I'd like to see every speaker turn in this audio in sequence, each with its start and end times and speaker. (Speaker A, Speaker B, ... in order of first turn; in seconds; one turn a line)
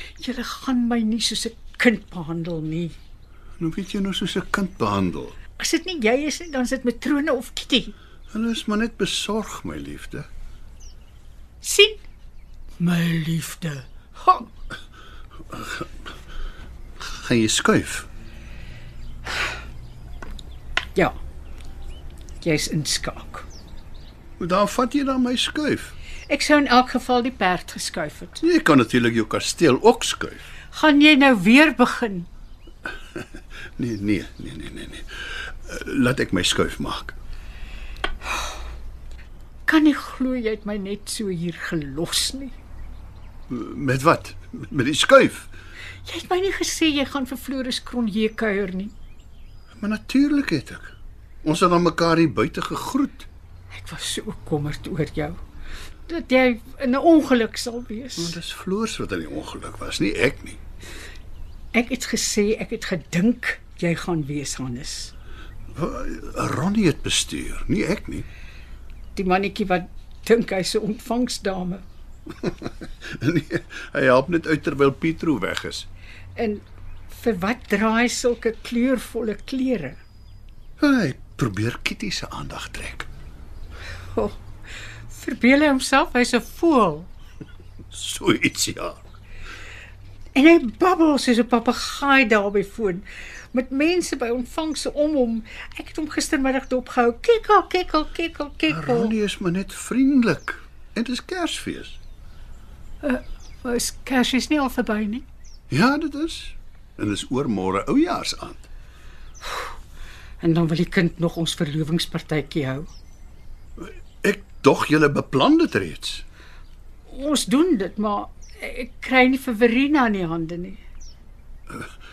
Speaker A: 0.2-3.0
Speaker B: 3.6-5.4
Speaker A: 5.6-7.9
Speaker B: 8.3-10.3
Speaker A: 11.6-12.0
Speaker A: 12.8-14.5
Speaker B: 15.5-15.8
Speaker B: 17.0-18.1
Speaker A: 22.4-23.5
Speaker B: 24.4-25.9
Speaker A: 26.3-28.4
Speaker B: 28.4-30.4
Speaker A: 30.7-32.3
Speaker B: 33.8-35.1
Speaker B: 35.7-37.1
Speaker A: 39.7-42.5
Speaker B: 43.5-45.5
Speaker A: 46.1-48.9
Speaker B: 49.8-53.3
Speaker A: 53.8-55.4
Speaker A: 56.1-58.4
Speaker B: 58.2-60.6
Speaker A: 61.7-65.1
Speaker B: 65.7-68.3
Speaker A: 69.2-71.8
Speaker B: 72.4-75.9
Speaker A: 76.4-80.0
Speaker B: 80.8-83.1
Speaker A: 85.1-87.1
Speaker B: 87.9-89.0
Speaker A: 90.3-99.2
Speaker B: 98.7-102.0
Speaker A: 103.0-105.3
Speaker B: 105.7-108.7
Speaker A: 110.4-112.9
Speaker B: 113.8-116.2
Speaker A: 117.1-120.8